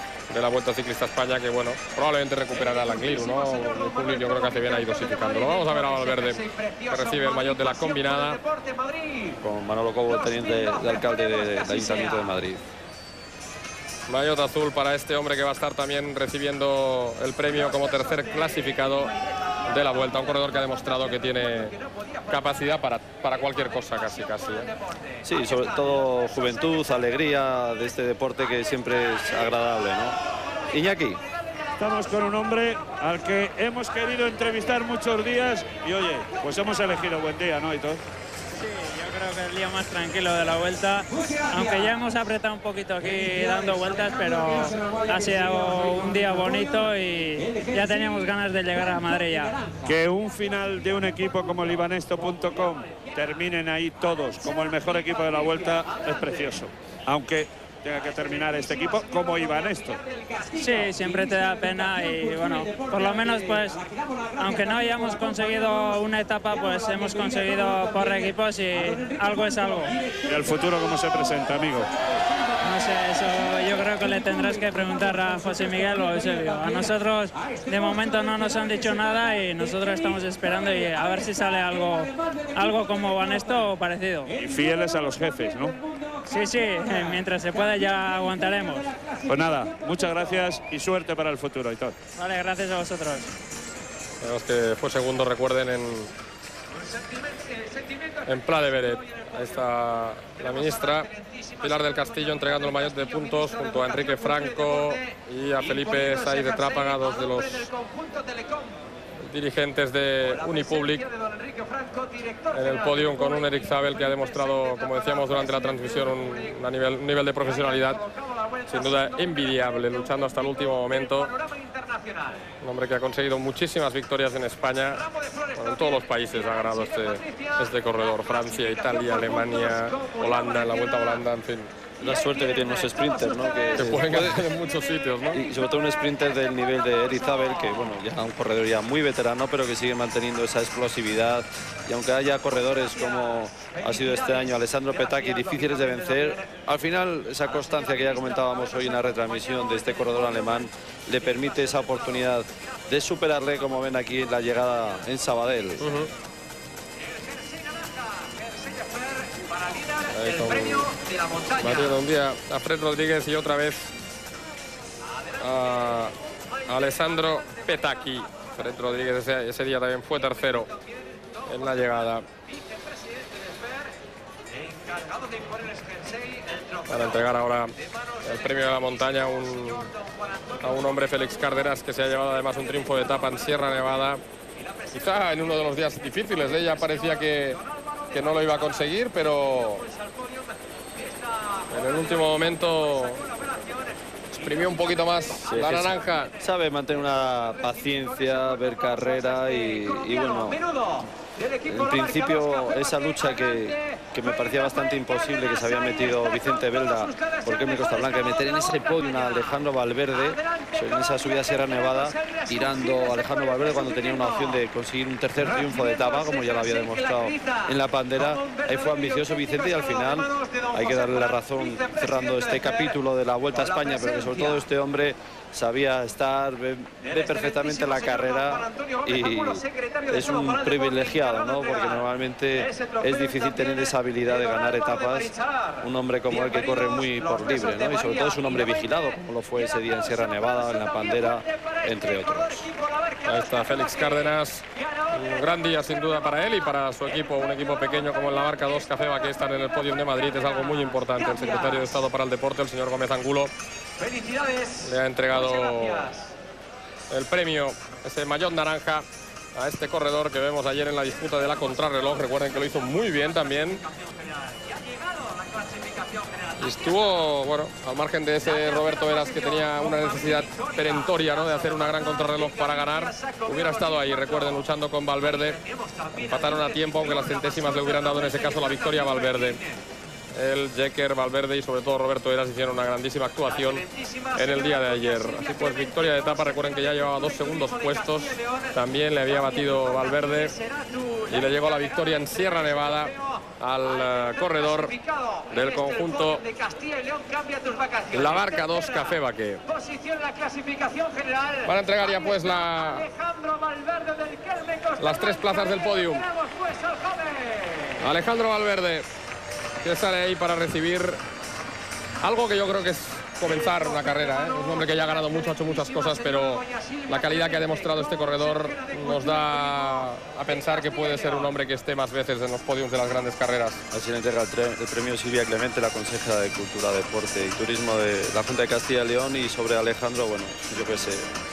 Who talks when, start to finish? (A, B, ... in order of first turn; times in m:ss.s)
0:00.3-0:08.4 A
0:09.4-0:12.6 B
0:14.1-0:19.1 A
0:19.6-0:21.8 A
0:22.3-0:24.7 A
0:25.2-0:30.2 B
0:30.7-0:31.2 B
0:31.8-0:38.0 C
0:38.5-0:49.6 D
0:49.8-1:00.0 C
1:00.5-1:03.8 D
1:04.4-1:10.0 D
1:10.2-1:11.9 C
1:12.6-1:24.3 D
1:24.4-1:25.8 C
1:26.3-1:28.9 D
1:29.2-1:32.0 C
1:32.2-1:33.3 D
1:34.2-1:36.1 A
1:38.2-1:47.7 A
1:49.2-1:51.1 A
1:52.5-1:58.0 A
1:58.7-2:01.3 A
2:02.6-2:11.7 A
2:12.0-2:14.4 B
2:13.8-2:15.4 A
2:15.3-2:35.8 B
2:35.8-2:36.1 A
2:40.1-2:40.9 A
2:41.6-2:43.9 A
2:45.4-2:46.1 A
2:46.6-2:50.7 A
2:51.5-2:52.2 A
2:56.9-2:59.9 A
3:00.6-3:04.2 A
3:04.9-3:07.6 A
3:08.1-3:09.8 A
3:11.7-3:13.3 A
3:14.3-3:16.3 A
3:15.5-3:20.6 B
3:21.6-4:02.7 B
4:03.2-4:13.5 A
4:14.8-4:16.1 A
4:17.1-4:23.8 A
4:26.6-4:35.6 A
4:36.1-4:39.6 A
4:40.3-4:50.6 A
4:51.3-4:55.0 A
4:55.5-4:56.4 A
4:58.1-4:59.6 A
5:01.6-5:03.1 A
5:05.0-5:06.3 A
5:08.0-5:09.1 A
5:09.8-5:11.2 A
5:12.2-5:23.8 A
5:23.9-5:31.3 B